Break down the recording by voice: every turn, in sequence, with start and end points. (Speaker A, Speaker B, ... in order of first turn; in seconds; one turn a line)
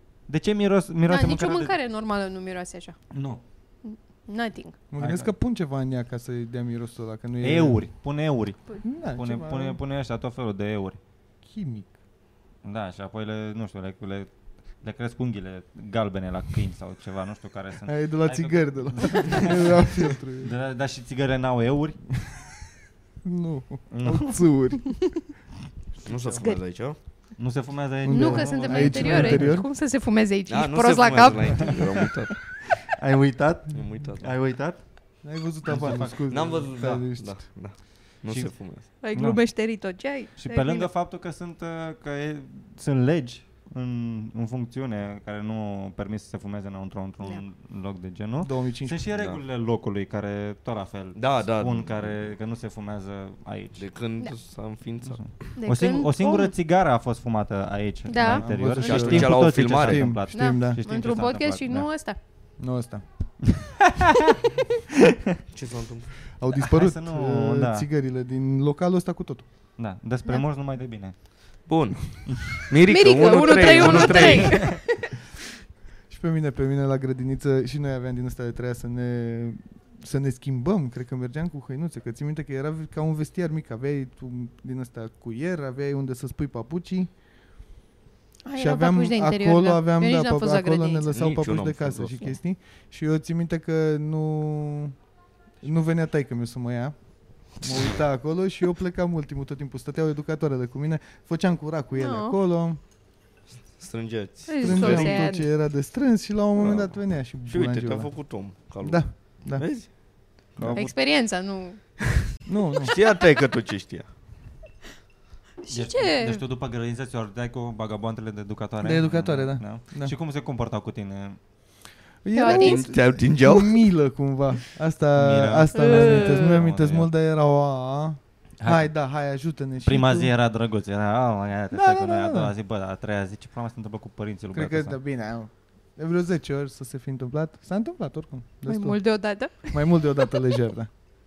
Speaker A: 0.3-1.7
Speaker B: 1.1-3.0
Speaker A: 3.1-3.4
Speaker B: 3.8-4.8
Speaker C: 4.9-7.8
Speaker A: 5.0-5.3
Speaker A: 7.4-11.0
Speaker C: 8.8-9.8
Speaker C: 11.4-11.9
Speaker A: 12.6-22.2
Speaker C: 17.9-20.5
Speaker C: 23.2-25.2
Speaker A: 23.9-24.4
Speaker D: 26.0-27.0
Speaker A: 27.4-29.5
Speaker C: 28.0-29.6
Speaker B: 28.1-31.8
Speaker D: 30.5-32.3
Speaker A: 31.6-31.9
Speaker A: 32.8-34.8
Speaker D: 33.7-34.3
Speaker C: 35.2-37.4
Speaker A: 35.6-36.2
Speaker D: 36.3-38.8
Speaker A: 38.3-39.4
Speaker B: 39.0-40.9
Speaker A: 40.4-53.8
Speaker C: 48.4-49.0
Speaker D: 49.1-49.4
Speaker D: 51.1-52.0
Speaker D: 53.8-55.4
Speaker A: 55.1-61.9
Speaker B: 55.5-56.5
Speaker B: 58.1-58.4
Speaker C: 58.2-60.8
Speaker D: 58.7-60.0
Speaker B: 60.3-62.2
Speaker C: 62.6-63.0
Speaker A: 63.6-64.4
Speaker D: 65.5-66.2
Speaker C: 66.4-69.4
Speaker A: 66.6-67.8
Speaker A: 69.8-71.1
Speaker D: 71.7-74.8
Speaker B: 72.8-75.0
Speaker A: 73.8-74.6
Speaker C: 76.1-87.1
Speaker B: 88.4-91.1
Speaker C: 88.6-94.9
Speaker D: 91.1-92.3
Speaker C: 95.6-97.0
Speaker C: 97.5-102.8
Speaker B: 102.0-102.3
Speaker D: 103.7-105.3
Speaker B: 104.5-105.5
Speaker C: 104.6-108.3
Speaker D: 106.6-109.9
Speaker C: 108.8-109.9
Speaker D: 110.5-110.9
Speaker C: 110.6-110.9
Speaker B: 110.7-111.8
Speaker C: 112.5-112.9
Speaker D: 112.8-114.1
Speaker B: 115.6-116.4
Speaker A: 115.7-121.4
Speaker C: 118.8-120.1
Speaker C: 122.2-130.3
Speaker B: 122.3-122.8
Speaker D: 122.5-123.8
Speaker A: 125.2-127.1
Speaker B: 125.7-126.6
Speaker A: 128.6-129.0
Speaker A: 129.8-135.0
Speaker C: 131.7-132.5
Speaker C: 134.5-139.0
Speaker B: 138.7-140.1
Speaker C: 139.6-140.9